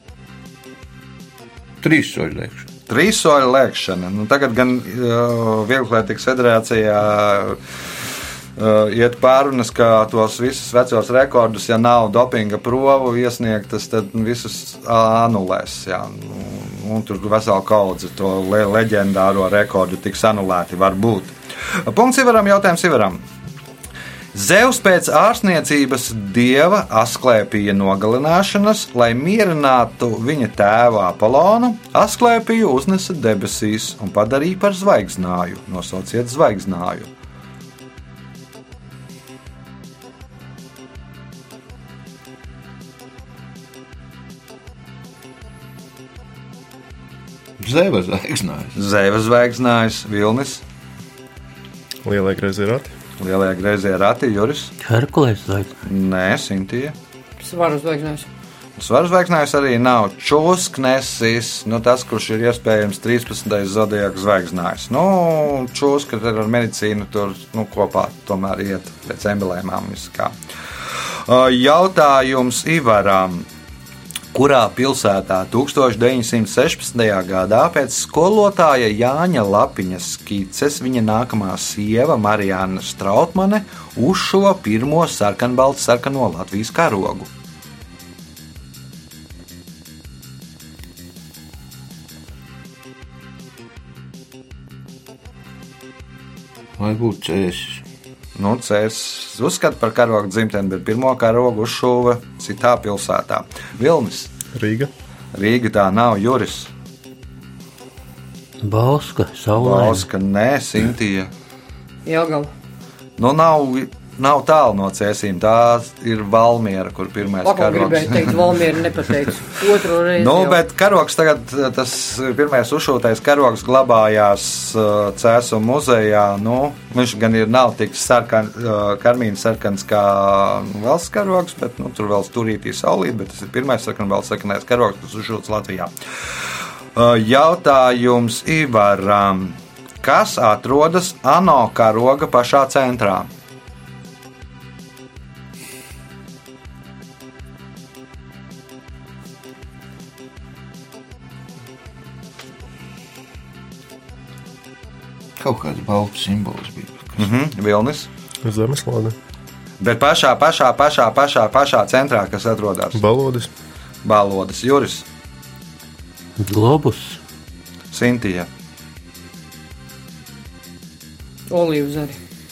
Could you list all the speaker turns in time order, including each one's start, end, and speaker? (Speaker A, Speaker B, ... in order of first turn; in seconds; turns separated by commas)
Speaker A: 1.8-2.7, Speaker B: 2.9-7.6, Speaker B: 8.6-23.2, Speaker B: 24.3-37.1, Speaker A: 47.6-48.8, Speaker B: 48.8-50.6, Speaker C: 52.0-52.9, Speaker B: 53.2-54.7, Speaker D: 54.8-55.7, Speaker B: 55.8-56.9, Speaker E: 57.4-58.3, Speaker B: 58.8-70.3, Speaker B: 71.0-73.5, Speaker B: 74.3-87.3, Speaker A: 96.8-97.8, Speaker B: 98.3-104.3, Speaker C: 104.5-104.9, Speaker B: 105.3-106.7, Speaker D: 108.6-110.0, Speaker B: 109.5-111.3, Speaker E: 112.0-112.5, Speaker B: 113.2-118.4, Speaker E: 117.4-120.6, Speaker B: 120.1-135.9, Speaker B: 136.9-143.3, Speaker A: 155.4-157.2, Speaker B: 157.2-158.1, Speaker C: 158.4-159.1, Speaker B: 159.8-163.0, Speaker C: 162.9-163.5, Speaker B: 164.0-165.1, Speaker D: 166.4-167.2, Speaker B: 167.9-168.5, Speaker E: 171.5-172.2